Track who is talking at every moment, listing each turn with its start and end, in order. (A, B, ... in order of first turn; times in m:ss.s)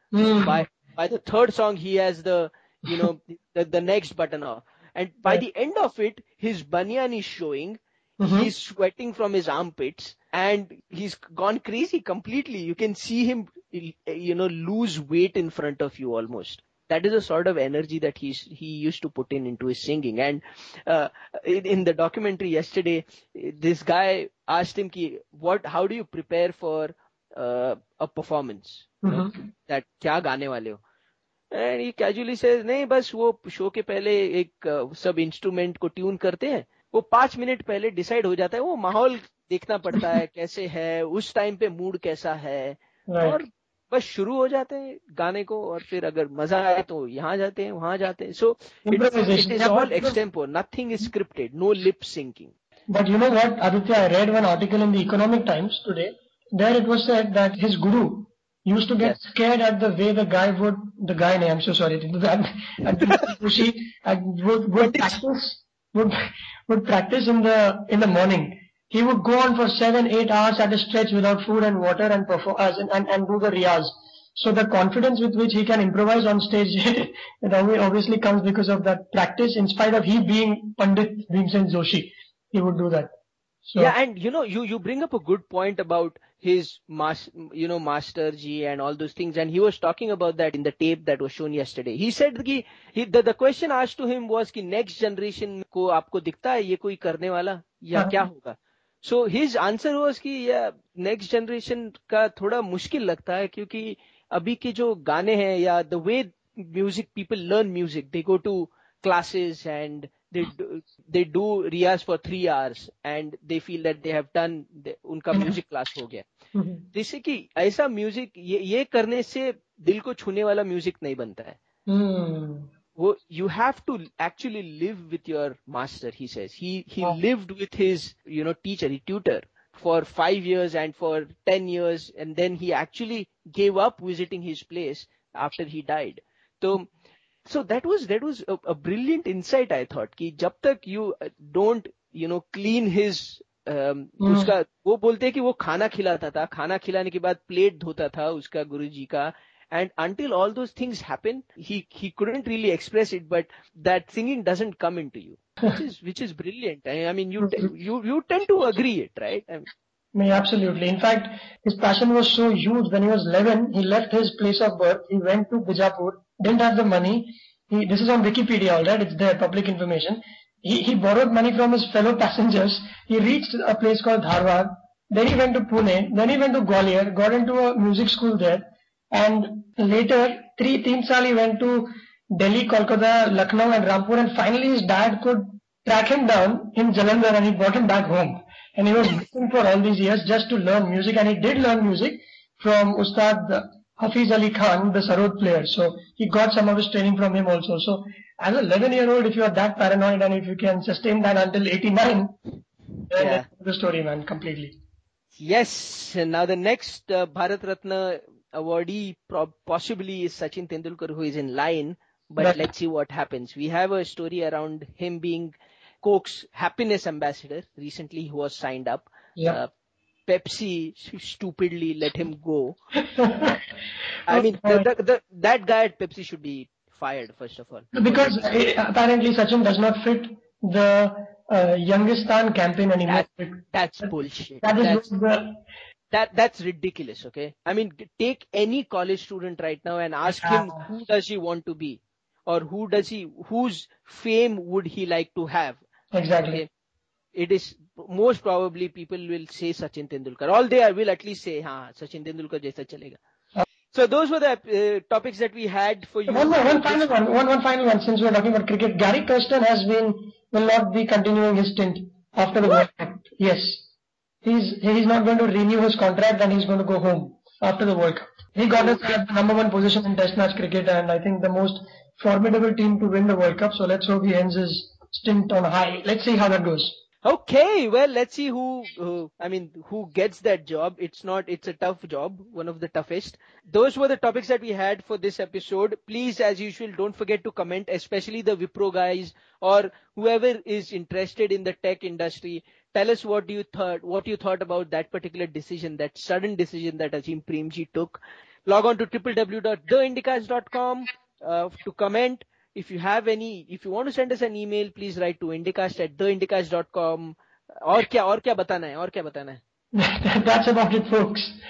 0:00.1-0:00.6 A
0:00.2-0:30.8 B
0:08.2-0:08.5 A
0:29.0-0:29.3 A
0:31.5-0:52.5 B
0:43.1-0:43.4 A
0:48.8-0:50.2 A
0:52.9-1:23.1 A
1:03.0-1:03.3 B
1:04.8-1:05.2 B
1:23.6-1:23.9 A
1:23.8-1:56.3 B
1:56.5-1:56.8 A
1:56.9-2:01.6 B
2:01.9-2:02.7 A
2:03.0-2:16.9 B
2:17.4-2:39.7 B
2:24.2-2:24.5 A
2:40.1-3:22.4 A
3:23.1-3:24.7 A
3:23.1-3:23.4 B
3:25.4-3:39.7 B
3:32.4-3:32.7 A
3:40.2-3:42.8 B
3:43.1-3:43.6 A
3:44.3-3:48.5 B
3:44.3-3:44.9 A
3:47.9-3:53.6 A
3:53.1-3:55.0 B
3:54.6-3:55.6 A
3:56.1-4:05.8 B
4:00.3-4:00.8 A
4:06.1-4:06.6 A
4:07.3-4:13.2 B
4:13.9-4:17.1 B
4:16.3-4:23.8 A
4:24.4-4:36.9 A
4:37.2-5:09.6 B
5:09.9-5:11.6 A